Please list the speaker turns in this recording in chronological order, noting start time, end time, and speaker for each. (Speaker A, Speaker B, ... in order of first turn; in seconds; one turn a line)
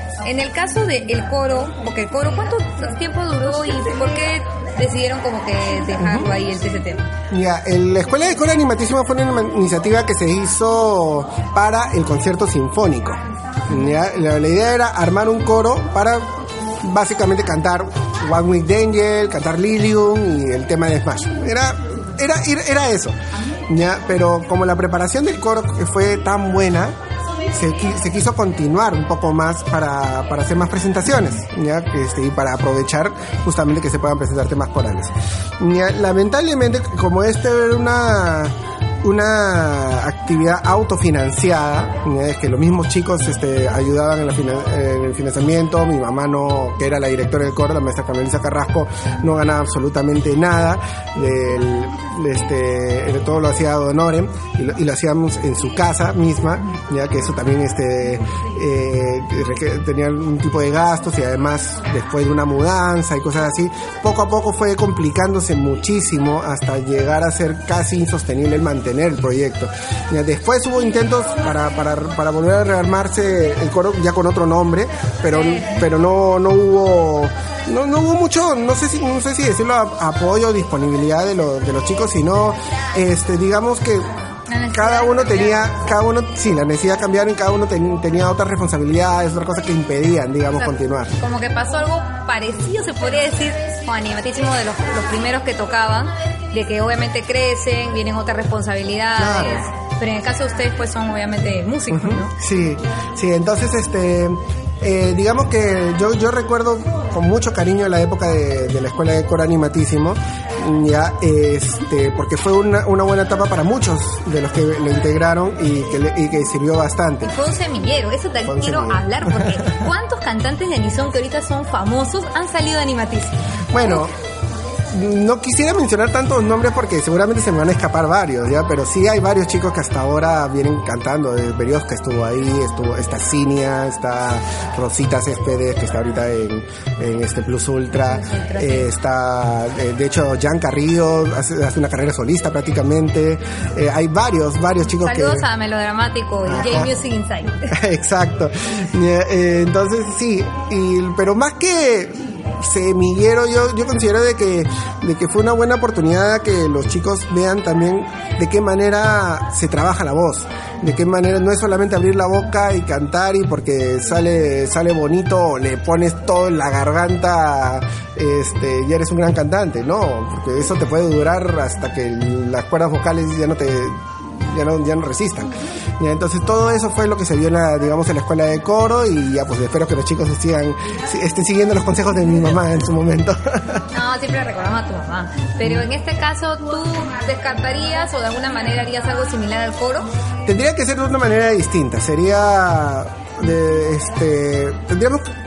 Speaker A: 0.2-7.1
Speaker B: 6.0-6.3
Speaker B: 7.3-23.2
Speaker B: 23.7-27.0
Speaker B: 27.5-84.1
Speaker A: 75.3-75.8
Speaker A: 84.5-85.8
Speaker B: 84.7-91.2
Speaker A: 90.5-102.3
Speaker B: 99.2-99.7
Speaker B: 101.9-117.3
Speaker A: 117.3-124.0
Speaker B: 118.5-119.6
Speaker B: 123.7-124.1
Speaker B: 124.9-145.5
Speaker A: 137.9-138.9
Speaker A: 145.0-147.8
Speaker B: 146.4-146.9
Speaker B: 147.7-183.8
Speaker A: 183.9-190.1
Speaker B: 190.4-195.3